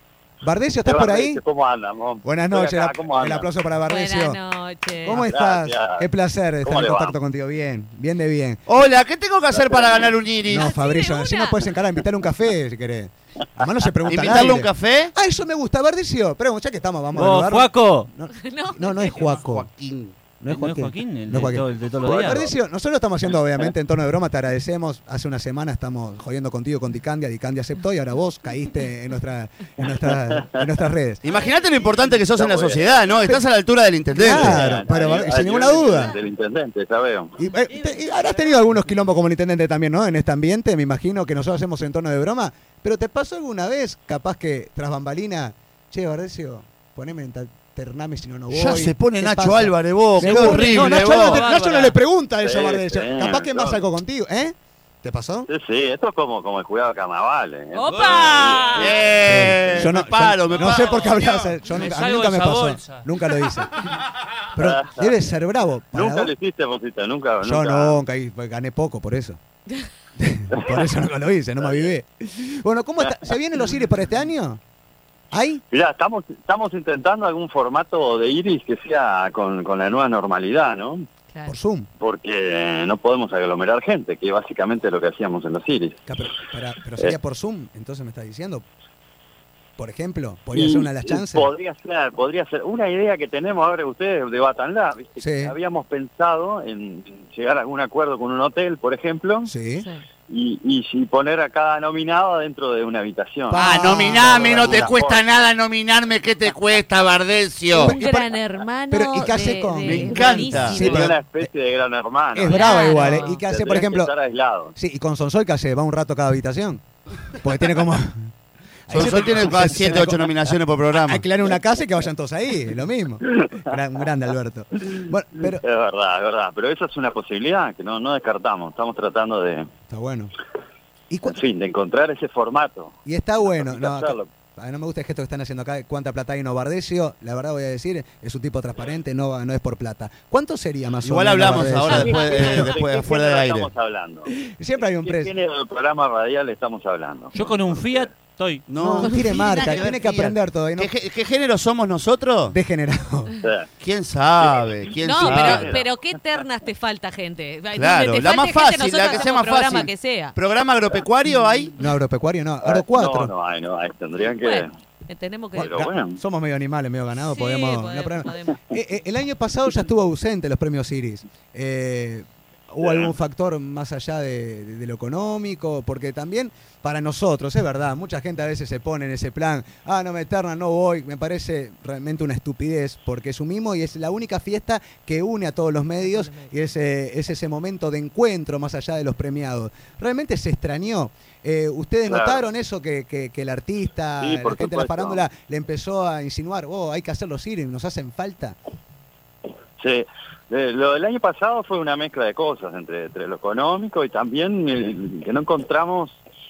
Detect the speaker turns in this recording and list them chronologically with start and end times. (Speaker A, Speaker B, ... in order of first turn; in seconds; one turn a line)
Speaker A: 0.4-1.4
Speaker B: 0.8-3.5
Speaker A: 2.2-4.4
Speaker C: 3.9-5.2
Speaker A: 5.0-8.6
Speaker B: 5.1-6.1
Speaker B: 6.6-7.1
Speaker D: 8.7-10.7
Speaker B: 9.7-10.1
Speaker A: 10.4-19.7
Speaker C: 10.5-11.7
Speaker D: 14.1-15.1
Speaker E: 17.1-18.1
Speaker C: 18.3-19.4
Speaker D: 19.3-20.2
Speaker A: 20.4-31.2
Speaker E: 20.5-22.5
Speaker D: 31.2-34.9
Speaker B: 32.1-32.9
Speaker A: 34.1-36.1
Speaker B: 34.3-37.3
Speaker A: 37.4-55.5
Speaker E: 37.7-38.8
Speaker D: 48.5-51.4
Speaker E: 50.2-52.0
Speaker B: 52.4-53.8
Speaker B: 55.5-59.5
Speaker C: 57.7-58.9
Speaker E: 57.9-59.4
Speaker D: 58.6-61.5
Speaker A: 59.2-63.8
Speaker E: 60.4-60.9
Speaker E: 61.7-63.1
Speaker A: 64.5-66.3
Speaker B: 64.5-65.1
Speaker B: 65.9-68.0
Speaker A: 67.4-69.4
Speaker A: 70.2-74.6
Speaker A: 75.3-75.6
Speaker B: 75.7-81.0
Speaker A: 81.5-81.9
Speaker B: 82.0-86.0
Speaker A: 86.1-88.6
Speaker A: 89.8-91.5
Speaker B: 90.5-99.5
Speaker A: 95.2-95.5
Speaker A: 99.5-99.9
Speaker B: 100.3-105.2
Speaker A: 103.5-104.9
Speaker D: 103.5-108.0
Speaker A: 107.7-108.3
Speaker C: 107.8-111.1
Speaker A: 108.9-111.5
Speaker D: 109.8-111.2
Speaker B: 110.5-114.7
Speaker A: 112.3-114.1
Speaker C: 112.5-113.4
Speaker A: 114.8-118.3
Speaker A: 118.9-120.3
Speaker D: 118.9-121.2
Speaker A: 120.9-125.6
Speaker B: 125.4-129.7
Speaker A: 129.9-130.3
Speaker A: 131.1-131.4
Speaker B: 131.2-132.9
Speaker A: 133.0-142.7
Speaker B: 133.5-134.3
Speaker D: 141.0-143.7
Speaker B: 141.9-144.3
Speaker A: 144.4-145.3
Speaker B: 145.0-148.0
Speaker E: 147.3-148.6
Speaker D: 148.7-152.6
Speaker A: 148.8-150.9
Speaker C: 149.0-149.5
Speaker A: 152.5-153.3
Speaker B: 153.4-153.7
Speaker D: 153.8-155.7
Speaker B: 154.5-155.9
Speaker C: 155.0-160.3
Speaker D: 157.7-161.7
Speaker A: 161.8-163.3
Speaker B: 162.6-164.7
Speaker C: 164.4-165.8
Speaker A: 165.6-198.6
Speaker B: 165.6-166.2
Speaker C: 167.2-168.6
Speaker B: 172.8-173.1
Speaker C: 186.0-186.5
Speaker B: 192.1-192.4
Speaker B: 194.2-195.2
Speaker B: 199.8-206.2